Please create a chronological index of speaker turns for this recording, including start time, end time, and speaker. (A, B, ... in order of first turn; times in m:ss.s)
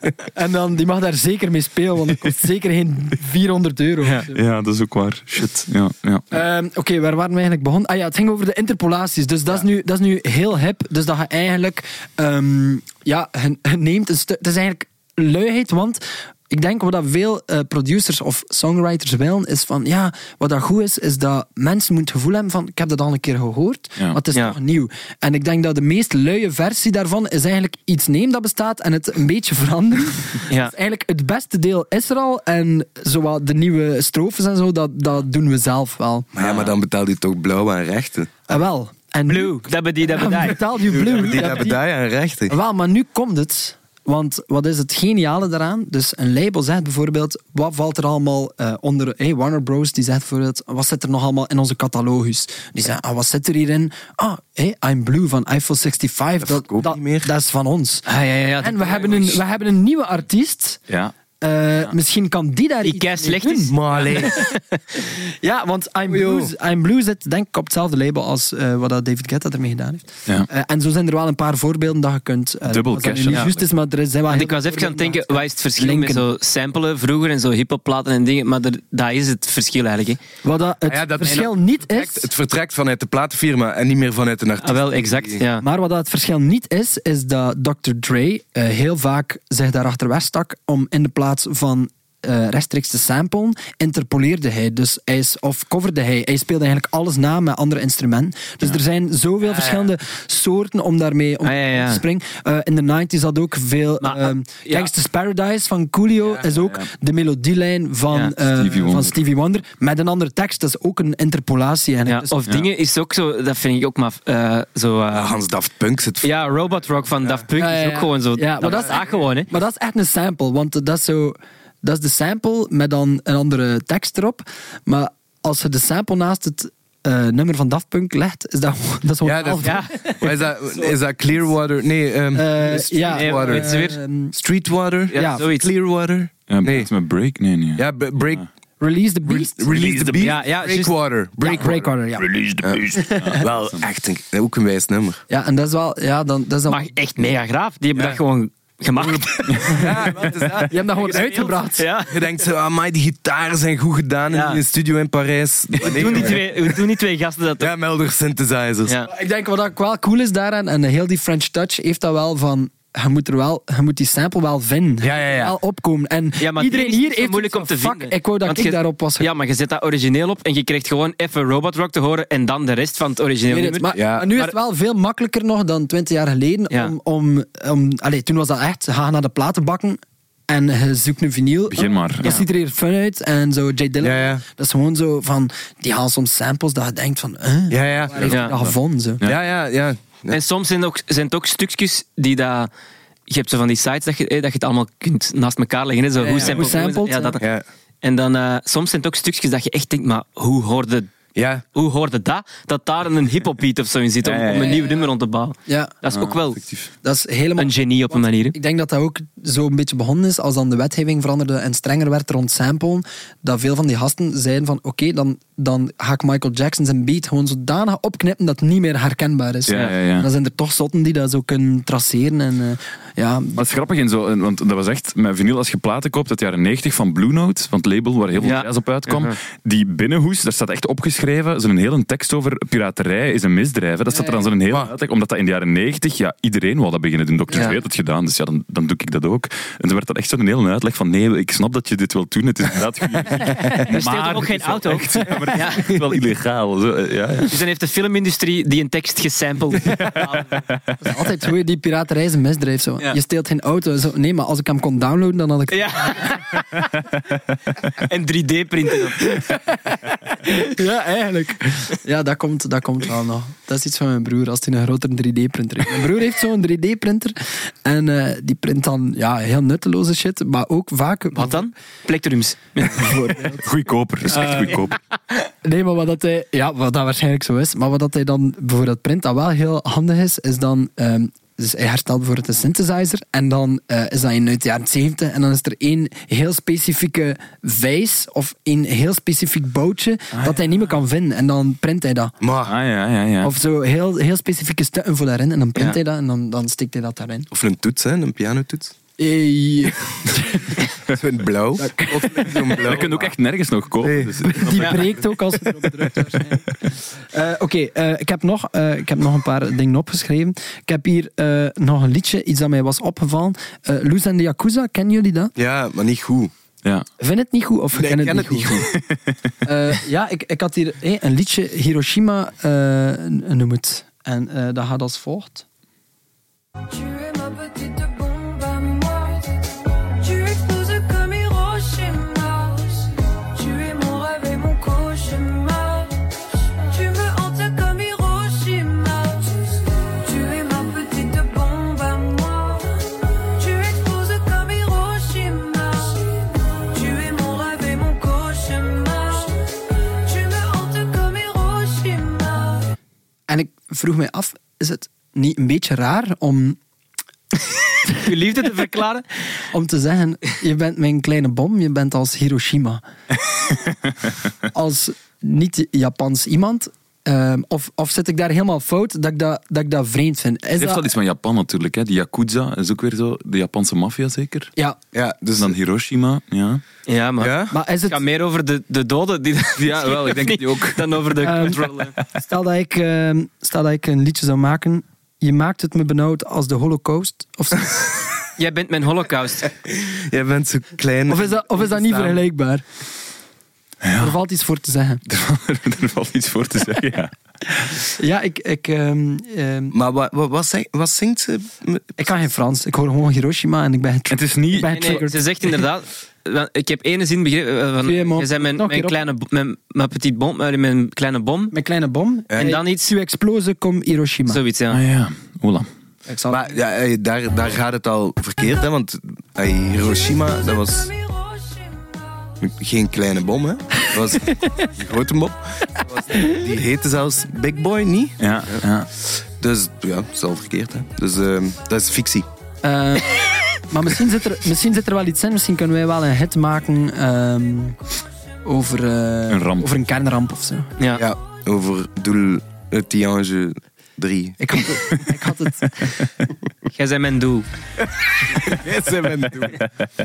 0:00.4-0:04.4 A
0:04.3-0:06.3 B
0:06.3-0:36.3 A
0:36.3-0:38.6 C
0:36.4-0:36.7 D
0:38.5-0:41.8 A
0:39.3-0:40.8 D
0:40.8-0:42.6 C
0:42.5-0:58.1 A
0:56.4-0:57.3 C
0:58.1-0:59.4 D
0:58.6-1:00.8 A
1:01.4-1:04.3 A
1:02.8-1:04.8 D
1:03.7-1:04.4 C
1:05.0-1:16.2 A
1:06.1-1:06.5 C
1:12.6-1:13.6 B
1:14.3-1:20.2 D
1:20.4-1:22.3 A
1:20.9-1:25.4 C
1:24.6-1:25.6 D
1:25.6-1:52.3 A
1:41.4-1:42.0 D
1:44.0-1:44.9 D
1:48.6-1:49.1 B
1:52.1-1:55.4 D
1:55.1-1:56.3 C
1:56.2-1:59.5 D
1:57.6-2:10.2 A
2:09.2-2:13.7 C
2:09.6-2:10.4 D
2:12.3-2:14.4 A
2:13.1-2:14.0 D
2:14.3-2:16.9 C
2:15.1-2:15.7 D
2:15.1-2:15.4 A
2:16.5-2:18.4 B
2:17.8-2:18.4 C
2:18.8-2:19.9 A
2:19.2-2:21.9 C
2:19.7-2:20.2 B
2:20.2-2:20.9 D
2:21.4-2:22.3 A
2:22.2-2:23.8 B
2:22.6-2:25.2 C
2:22.9-2:23.4 A
2:25.3-2:26.9 A
2:26.7-2:30.2 D
2:27.9-2:28.2 C
2:29.1-2:31.5 C
2:30.6-2:31.9 A
2:31.1-2:32.1 D
2:32.1-2:36.8 C
2:34.3-2:34.6 D
2:35.8-2:37.7 D
2:37.6-2:39.0 C
2:39.1-2:49.3 A
2:45.0-2:45.6 C
2:46.4-2:54.5 D
2:53.5-3:09.2 A
2:53.9-2:54.3 C
3:01.7-3:02.4 B
3:04.0-3:04.4 C
3:07.7-3:08.4 C
3:08.2-3:09.4 B
3:08.3-3:08.5 D
3:09.2-3:10.4 C
3:10.3-3:12.7 D
3:13.3-3:17.4 D
3:16.2-3:16.6 C
3:16.4-3:17.4 A
3:17.4-3:17.6 C
3:18.0-3:21.1 D
3:21.4-3:21.6 C
3:21.7-3:26.6 D
3:24.2-3:24.8 C
3:24.6-3:25.0 A
3:25.7-3:25.9 A
3:26.1-3:26.9 B
3:27.0-3:43.6 A
3:27.6-3:28.6 D
3:39.7-3:40.3 B
3:43.6-4:07.5 B
3:48.4-3:49.4 D
3:57.5-3:57.8 D
4:03.5-4:03.9 A
4:03.8-4:05.9 D
4:07.5-4:10.6 D
4:10.0-4:11.0 B
4:11.0-4:16.4 A
4:15.7-4:16.6 D
4:18.0-4:19.4 D
4:19.2-4:31.6 A
4:31.4-4:33.3 D
4:32.8-4:33.7 A
4:33.6-4:35.0 B
4:34.2-4:34.9 A
4:35.5-4:52.3 A
4:52.4-4:52.7 C
4:52.6-4:53.5 B
4:53.4-4:57.5 A
4:57.5-4:58.9 C
4:59.2-5:00.9 A
5:01.1-5:03.4 C
5:01.8-5:02.8 A
5:02.8-5:05.2 B
5:04.0-5:05.0 C
5:04.4-5:15.5 A
5:15.6-5:16.5 C
5:17.2-5:18.9 A
5:17.9-5:19.0 C
5:19.6-5:25.6 A
5:26.9-5:29.6 E
5:30.2-5:49.6 E
5:50.2-5:52.9 E
5:53.5-5:56.8 A
5:58.1-5:59.2 D
5:59.7-6:03.0 A
6:04.7-6:11.0 A
6:10.8-6:14.7 B
6:15.1-6:15.8 C
6:15.6-6:16.8 B
6:17.1-6:22.1 D
6:17.4-6:17.7 C
6:17.7-6:18.2 A
6:19.8-6:21.0 B
6:21.4-6:28.1 A
6:28.6-6:29.7 D
6:29.8-6:32.4 C
6:31.3-6:32.8 A
6:34.0-6:34.4 B
6:34.2-6:35.2 A
6:35.3-6:37.3 B
6:38.0-6:39.9 A
6:39.9-6:42.4 C
6:42.2-6:45.4 A
6:44.3-6:45.2 B
6:44.9-6:51.7 D
6:48.0-6:49.2 A
6:51.7-6:54.6 A
6:52.6-6:53.0 D
6:54.5-6:55.0 D
6:54.9-6:55.9 B
6:56.3-6:56.7 A
6:56.5-7:01.1 C
7:02.6-7:12.5 C
7:06.3-7:06.6 A
7:08.4-7:09.1 B
7:12.8-7:18.0 A
7:18.6-7:20.9 A
7:19.5-7:19.9 B
7:21.0-7:21.2 D
7:21.1-7:25.2 C
7:24.6-7:26.2 A
7:26.9-7:27.7 D
7:28.5-7:29.8 C